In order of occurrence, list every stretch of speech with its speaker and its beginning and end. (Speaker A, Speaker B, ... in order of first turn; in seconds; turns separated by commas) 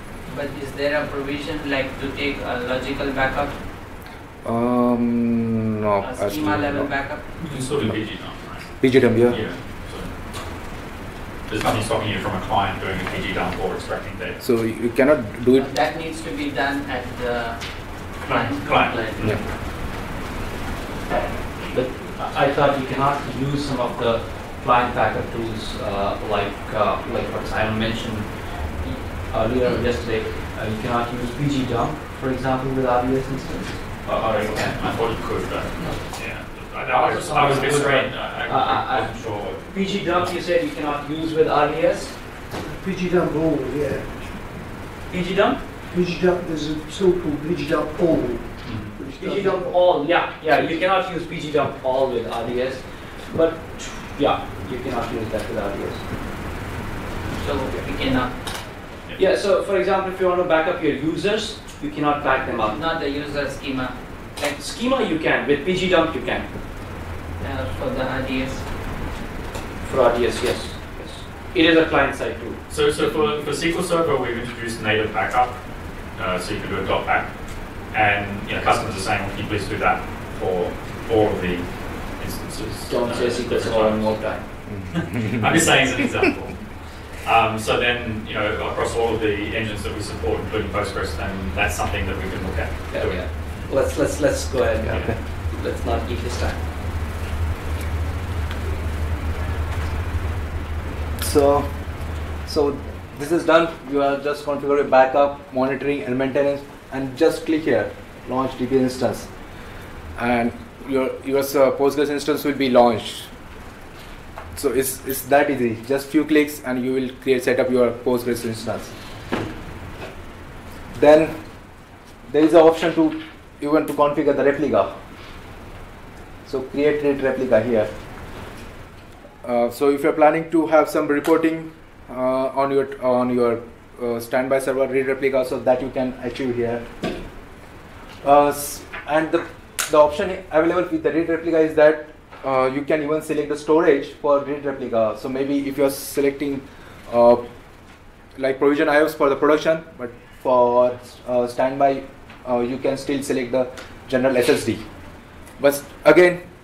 Speaker A: 0.3-3.6, Speaker B: 4.5-9.4, Speaker A: 6.0-7.7, Speaker C: 7.5-10.2, Speaker C: 11.5-14.4, Speaker B: 14.4-15.7, Speaker A: 15.5-19.5, Speaker C: 18.2-19.4, Speaker D: 21.7-34.8, Speaker C: 34.0-40.3, Speaker D: 36.9-42.2, Speaker E: 42.6-44.5, Speaker D: 45.1-45.6, Speaker E: 45.9-49.8, Speaker C: 48.6-49.0, Speaker D: 49.2-56.0, Speaker A: 57.4-58.4, Speaker D: 59.2-62.8, Speaker A: 62.7-64.0, Speaker D: 64.4-66.5, Speaker A: 67.4-68.7, Speaker D: 69.8-72.6, Speaker C: 72.7-84.4, Speaker D: 82.9-84.5, Speaker B: 84.7-85.8, Speaker C: 84.9-93.3, Speaker D: 92.9-96.6, Speaker B: 94.8-95.2, Speaker B: 101.2-101.9, Speaker B: 102.4-109.3, Speaker B: 110.2-113.3, Speaker B: 114.5-119.0, Speaker B: 120.9-121.4, Speaker B: 122.3-124.9, Speaker B: 126.5-127.9, Speaker B: 129.4-136.9, Speaker B: 138.2-147.4, Speaker B: 148.4-154.8, Speaker B: 155.6-156.4